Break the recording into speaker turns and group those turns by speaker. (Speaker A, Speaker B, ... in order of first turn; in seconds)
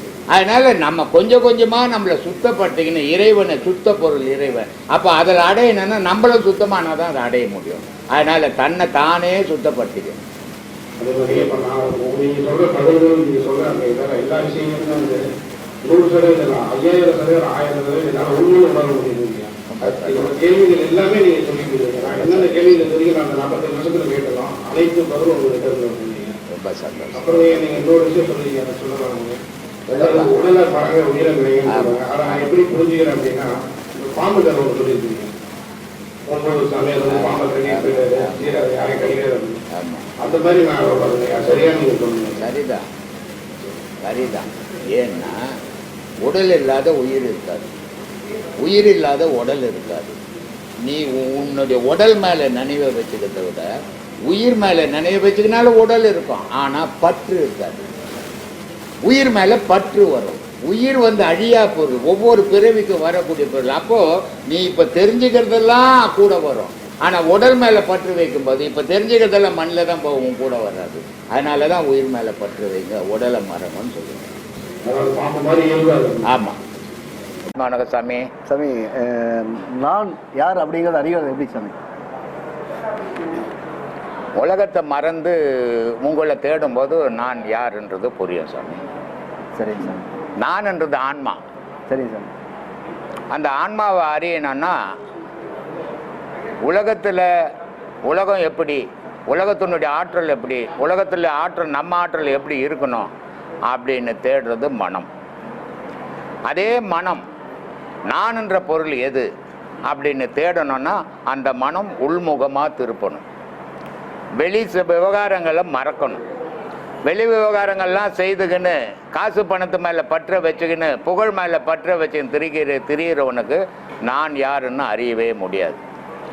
Speaker A: 0.3-10.2, 19.7-20.3, 22.0-22.5, 26.5-27.6, 29.9-30.3, 31.7-32.0, 37.0-38.7, 39.7-40.1, 42.4-42.8, 44.0-45.4, 46.2-47.7, 48.6-50.1, 50.8-53.7, 54.2-57.9, 59.0-74.3, 76.2-76.6, 77.5-78.3, 84.4-88.8, 90.4-91.4, 93.3-94.8, 96.6-97.3, 98.0-103.1, 103.7-105.1, 106.5-107.2, 108.1-109.3, 109.8-113.2, 114.4-116.2, 117.0-125.8
Speaker B: 11.0-15.2, 15.8-26.4, 27.1-29.4, 29.9-35.3, 36.2-39.6, 40.2-42.5, 74.8-76.3
Speaker C: 78.5-81.8, 89.5-90.1, 91.9-92.3